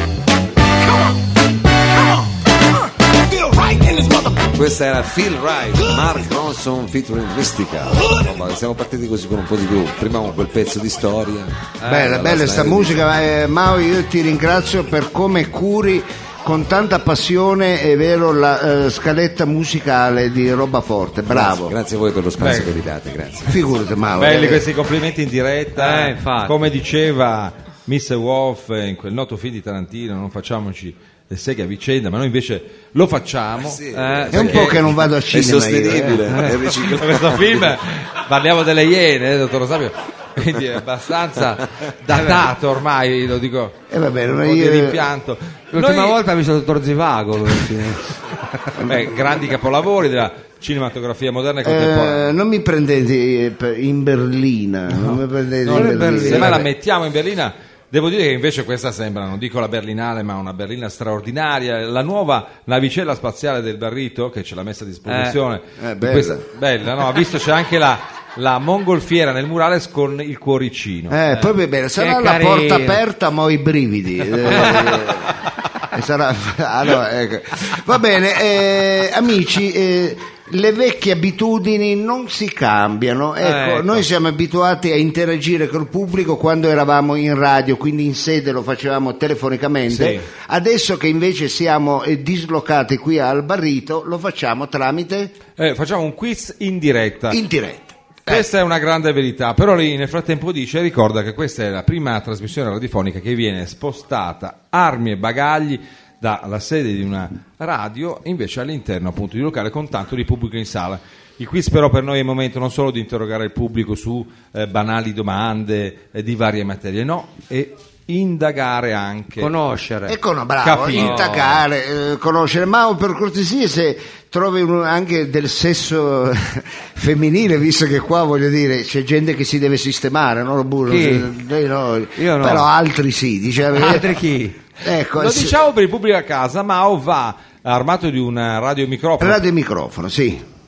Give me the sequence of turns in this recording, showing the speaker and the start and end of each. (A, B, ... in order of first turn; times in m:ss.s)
0:00.8-0:04.5 A
0:04.5-0:13.0 B
0:05.7-0:06.2 A
0:07.8-0:08.3 A
0:11.8-0:12.2 C
0:11.8-0:21.8 D
0:21.3-0:23.6 B
0:22.4-0:22.7 E
0:23.4-0:24.6 D
0:24.2-0:34.8 E
0:25.7-0:26.6 C
0:33.6-0:37.7 B
0:33.9-0:34.5 C
0:34.3-0:36.3 D
0:36.8-0:43.8 E
0:42.1-0:42.4 C
0:43.9-0:45.0 D
0:44.3-0:46.2 E
0:45.7-0:48.0 C
0:48.8-0:52.3 E
0:51.6-0:56.7 D
0:55.6-1:11.2 E
0:55.7-0:56.6 C
1:05.1-1:05.4 C
1:05.8-1:06.4 D
1:11.1-1:15.4 D
1:12.0-1:13.0 C
1:14.5-1:14.9 C
1:15.9-1:35.3 D
1:23.4-1:24.0 C
1:29.9-1:30.2 E
1:35.6-1:37.4 E
1:37.3-1:38.5 D
1:38.2-1:59.5 E
1:59.4-2:00.2 C
2:00.1-2:14.1 D
2:00.6-2:01.5 E
2:01.0-2:01.5 C
2:10.9-2:11.3 C
2:12.2-2:12.7 C
2:13.7-2:14.6 C
2:14.8-2:15.6 D
2:15.2-2:19.4 E
2:19.2-2:20.4 D